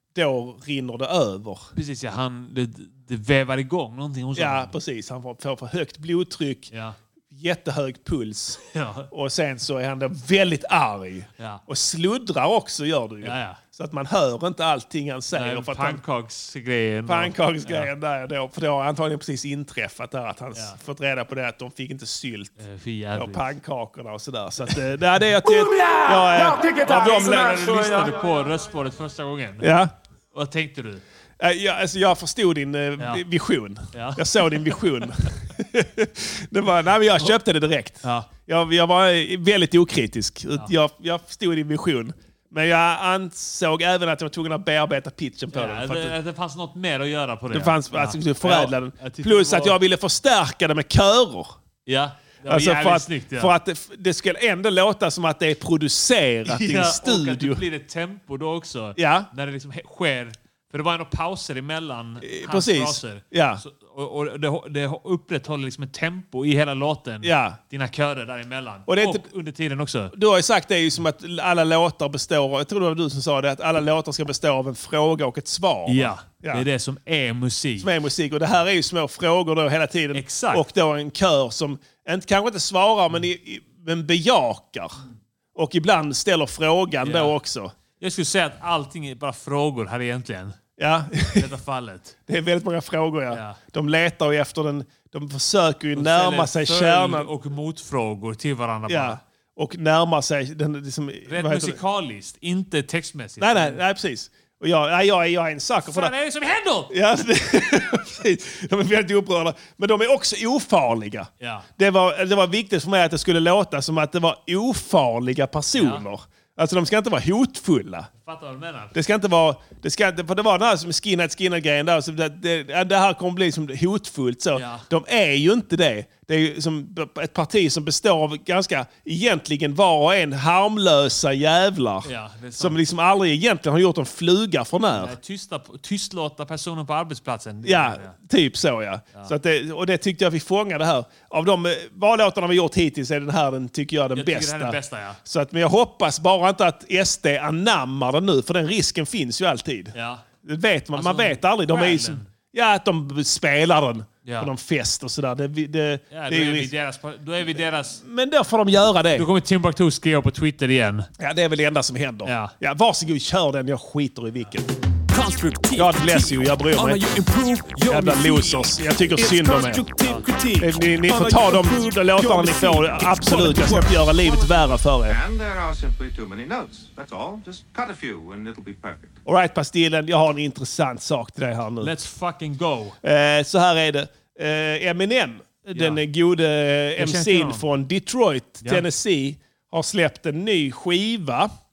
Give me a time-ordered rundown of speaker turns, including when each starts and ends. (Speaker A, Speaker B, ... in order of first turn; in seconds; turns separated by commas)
Speaker A: 0.1-1.7, Speaker B: 1.8-4.7, Speaker A: 4.4-6.7, Speaker B: 6.7-7.0, Speaker A: 7.3-16.0, Speaker B: 8.7-9.1, Speaker B: 13.2-13.6, Speaker B: 15.3-17.9, Speaker A: 17.1-22.6, Speaker B: 22.6-23.4, Speaker A: 23.1-27.9, Speaker B: 26.8-29.7, Speaker A: 29.6-29.9, Speaker B: 30.3-31.0, Speaker A: 31.4-46.2, Speaker B: 33.9-34.8, Speaker B: 38.0-38.3, Speaker B: 45.5-49.8, Speaker A: 47.5-51.6, Speaker B: 51.9-53.5, Speaker A: 52.5-57.6, Speaker B: 56.5-70.1, Speaker A: 59.0-59.3, Speaker A: 62.2-63.6, Speaker A: 67.2-67.6, Speaker A: 68.9-69.3, Speaker A: 70.1-76.7, Speaker B: 75.9-77.9, Speaker A: 77.8-85.0, Speaker B: 80.1-80.6, Speaker A: 85.5-87.7, Speaker B: 87.0-87.3, Speaker B: 88.0-90.6, Speaker A: 90.8-91.5, Speaker B: 91.3-92.2, Speaker A: 92.3-97.3, Speaker B: 93.3-93.6, Speaker B: 96.0-99.2, Speaker A: 98.9-101.8, Speaker B: 101.3-103.8, Speaker A: 103.4-106.1, Speaker B: 105.8-106.9, Speaker A: 106.9-118.1, Speaker B: 111.4-111.7, Speaker B: 115.8-116.0, Speaker B: 118.2-118.9, Speaker A: 118.9-135.2, Speaker B: 124.5-124.9, Speaker B: 132.0-132.8, Speaker B: 134.9-138.2, Speaker A: 137.6-156.7, Speaker B: 144.1-145.2, Speaker B: 149.9-150.2, Speaker B: 150.9-152.3, Speaker B: 154.2-154.5, Speaker B: 156.1-158.0, Speaker A: 157.6-159.3, Speaker B: 159.2-161.1, Speaker A: 161.2-164.8, Speaker B: 162.2-162.5, Speaker C: 165.1-166.2, Speaker A: 165.8-167.1, Speaker C: 166.8-173.9, Speaker A: 167.8-169.9, Speaker B: 170.0-170.2, Speaker A: 170.6-175.2, Speaker D: 174.3-174.5, Speaker D: 175.1-179.2, Speaker A: 179.2-181.9, Speaker B: 181.8-183.0, Speaker A: 183.0-191.5, Speaker B: 185.8-186.0, Speaker B: 187.0-187.7